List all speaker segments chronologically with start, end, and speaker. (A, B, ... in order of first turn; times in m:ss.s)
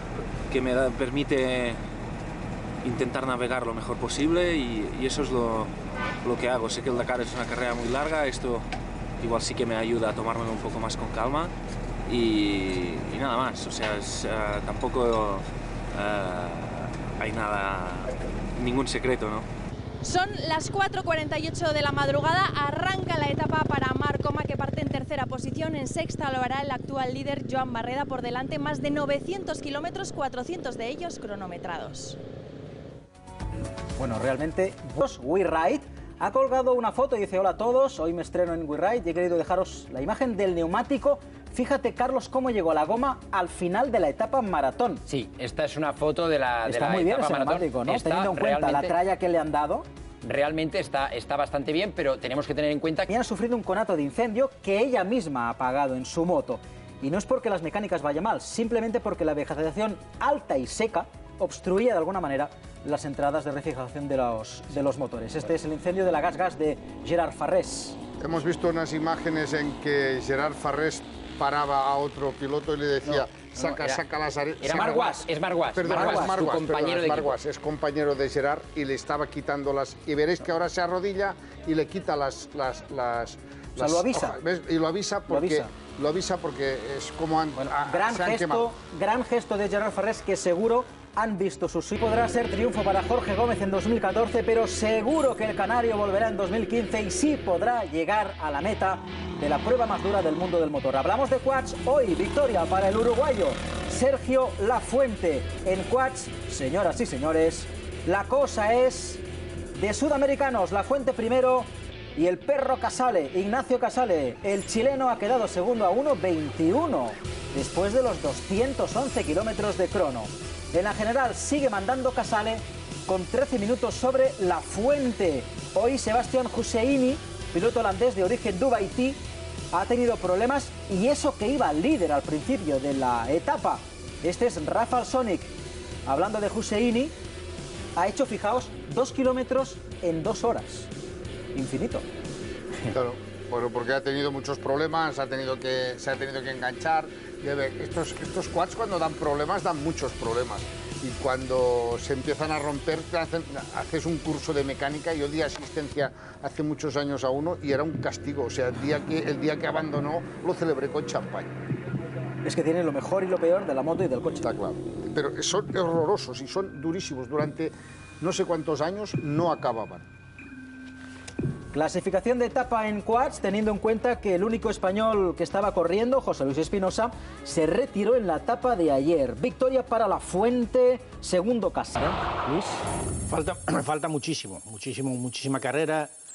0:00.5-0:01.8 A
0:02.8-0:08.7 A
0:09.2-0:11.5 A
0:12.0-0:19.5 A
0:20.0-0:32.2 B
0:34.0-0:45.0 C
0:45.0-0:48.9 D
0:46.6-0:49.8 C
0:50.2-0:53.1 D
0:53.1-1:08.0 C
1:08.2-1:28.7 E
1:13.0-1:14.0 D
1:14.6-1:17.4 D
1:15.9-1:16.4 C
1:23.8-1:24.4 C
1:25.3-1:25.7 C
1:27.7-1:49.2 C
1:49.7-2:09.2 C
2:09.7-2:15.5 C
2:16.0-2:17.1 C
2:18.0-2:20.9 C
2:21.5-2:22.0 C
2:22.9-2:41.5 E
2:42.4-2:44.4 C
2:44.4-2:50.0 E
2:51.7-3:02.8 C
3:03.3-3:06.1 F